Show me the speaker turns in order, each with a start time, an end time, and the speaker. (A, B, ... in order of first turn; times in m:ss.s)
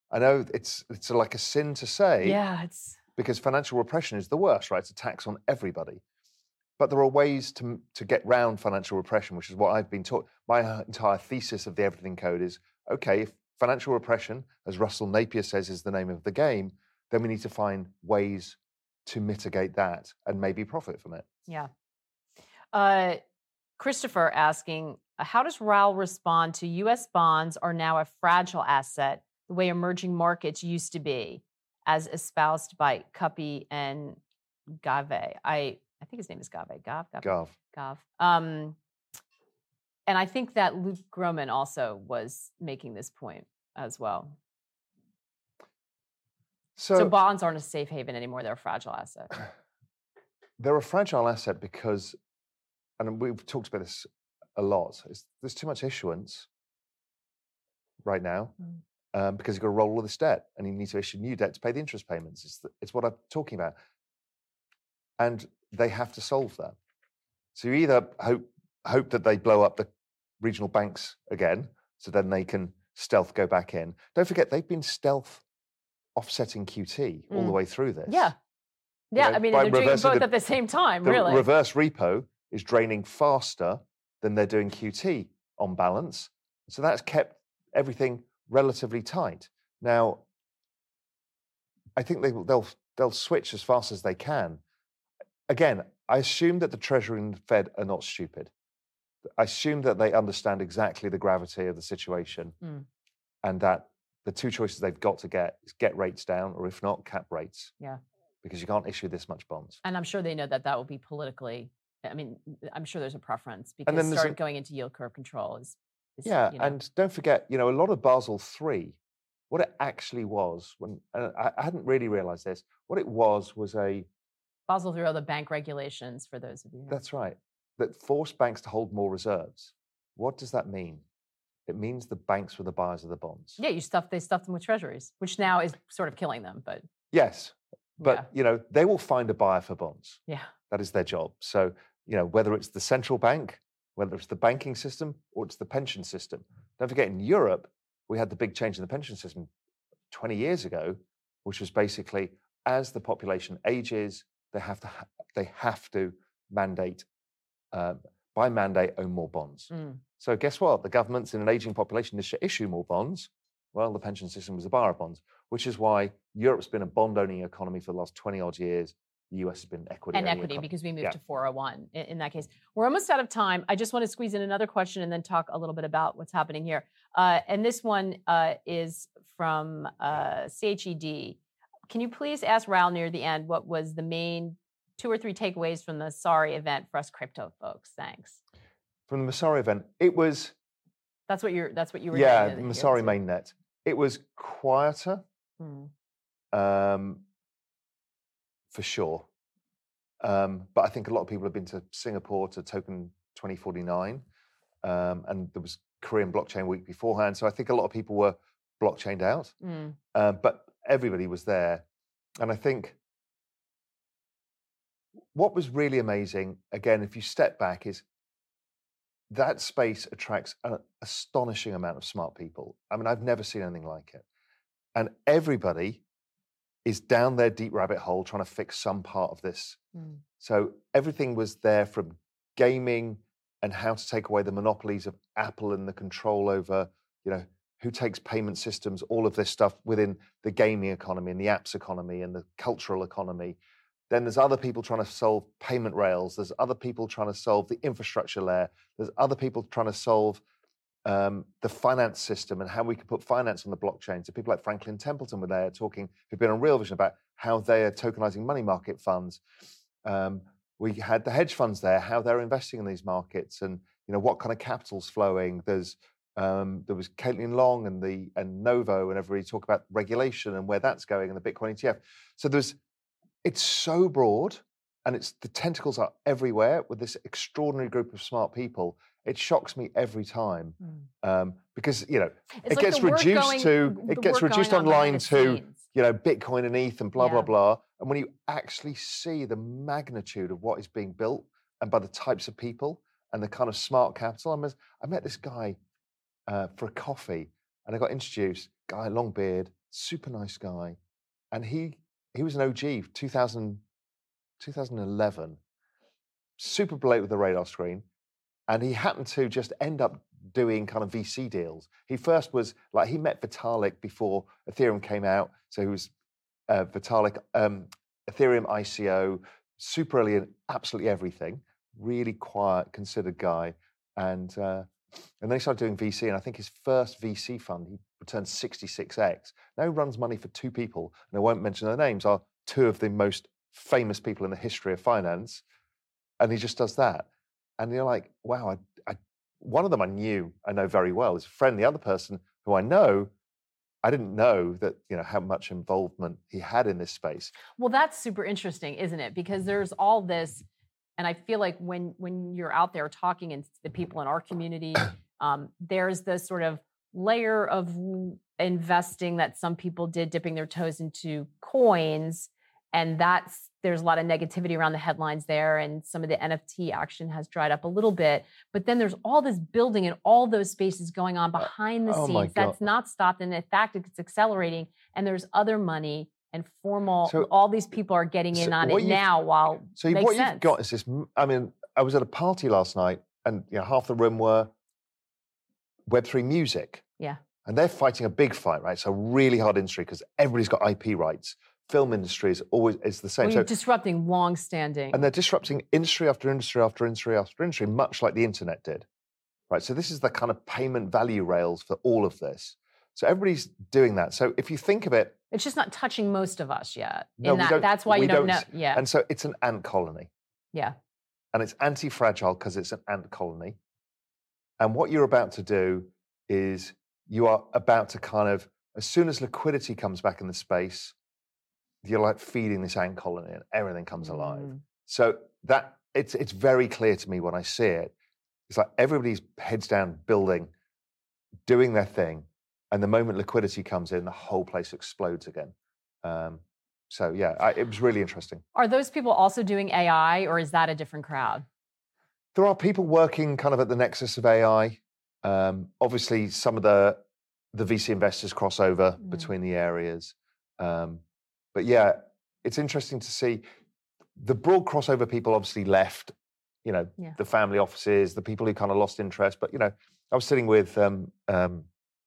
0:00.1-0:02.4 A
0:02.2-0:03.0 B
0:03.2-0:06.0 A
0:06.8-0:21.3 A
0:22.7-0:23.2 B
0:23.8-0:34.2 B
0:34.8-0:38.8 B
0:37.2-0:37.5 A
0:40.1-0:44.4 B
0:46.8-0:47.1 A
0:46.9-0:49.3 B
0:50.6-0:52.2 A
0:53.0-0:56.5 A
0:58.0-0:58.5 A
0:59.1-1:03.8 A
1:05.2-1:06.8 A
1:07.5-1:15.4 A
1:16.1-1:18.3 A
1:17.3-1:18.3 B
1:19.1-1:21.4 B
1:19.2-1:20.3 A
1:21.0-1:30.2 A
1:32.0-1:34.6 A
1:35.5-1:38.5 A
1:39.4-1:42.5 A
1:43.4-1:47.7 A
1:48.4-1:49.8 A
1:49.8-1:56.8 B
1:53.8-1:54.4 A
1:56.2-1:59.0 A
1:59.5-2:04.1 A
2:04.7-2:07.0 B
2:06.9-2:11.0 A
2:11.6-2:13.6 A
2:13.6-2:16.8 B
2:17.1-2:29.5 A
2:30.1-2:37.0 A
2:37.7-2:51.2 A
2:39.7-2:40.0 B
2:50.1-3:01.4 B
3:01.9-3:08.4 B
3:09.1-3:10.5 A
3:11.3-3:13.2 B
3:12.1-3:15.2 A
3:15.6-3:15.9 B
3:16.5-3:17.2 A
3:18.7-3:19.2 A
3:20.2-3:24.2 A
3:24.8-3:29.5 A
3:29.6-3:30.0 B
3:30.1-3:31.8 A
3:32.4-3:33.0 A
3:35.3-3:38.0 A
3:39.3-3:44.2 A
3:44.9-3:46.0 A
3:46.8-3:49.8 A
3:50.4-4:03.6 A
4:04.1-4:10.4 A
4:11.0-4:19.4 A
4:20.0-4:32.8 A
4:33.4-4:55.8 A
4:42.6-4:45.8 B
4:47.2-4:47.5 B
4:56.5-5:01.0 A
5:01.5-5:03.8 A
5:04.6-5:05.6 A
5:06.6-5:08.0 A
5:08.7-5:16.1 A
5:16.7-5:35.6 A
5:36.4-5:37.3 A
5:37.8-5:43.3 A
5:44.0-5:47.5 A
5:47.8-5:50.6 B
5:51.2-6:20.7 B
6:11.6-6:12.8 A
6:18.5-6:19.3 A
6:19.9-6:24.7 A
6:26.1-6:27.0 A
6:27.6-6:33.7 A
6:33.4-6:35.3 B
6:35.1-6:39.0 A
6:39.7-6:45.4 A
6:45.5-6:49.0 B
6:47.4-6:50.3 A
6:51.5-6:53.8 A
6:54.8-7:01.1 A
7:02.0-7:08.1 A
7:04.3-7:04.8 B
7:08.7-7:10.7 A
7:11.6-7:18.6 A
7:18.7-7:21.6 B
7:22.5-7:27.2 A
7:27.7-7:31.2 A
7:31.7-7:33.6 A
7:34.4-7:41.9 A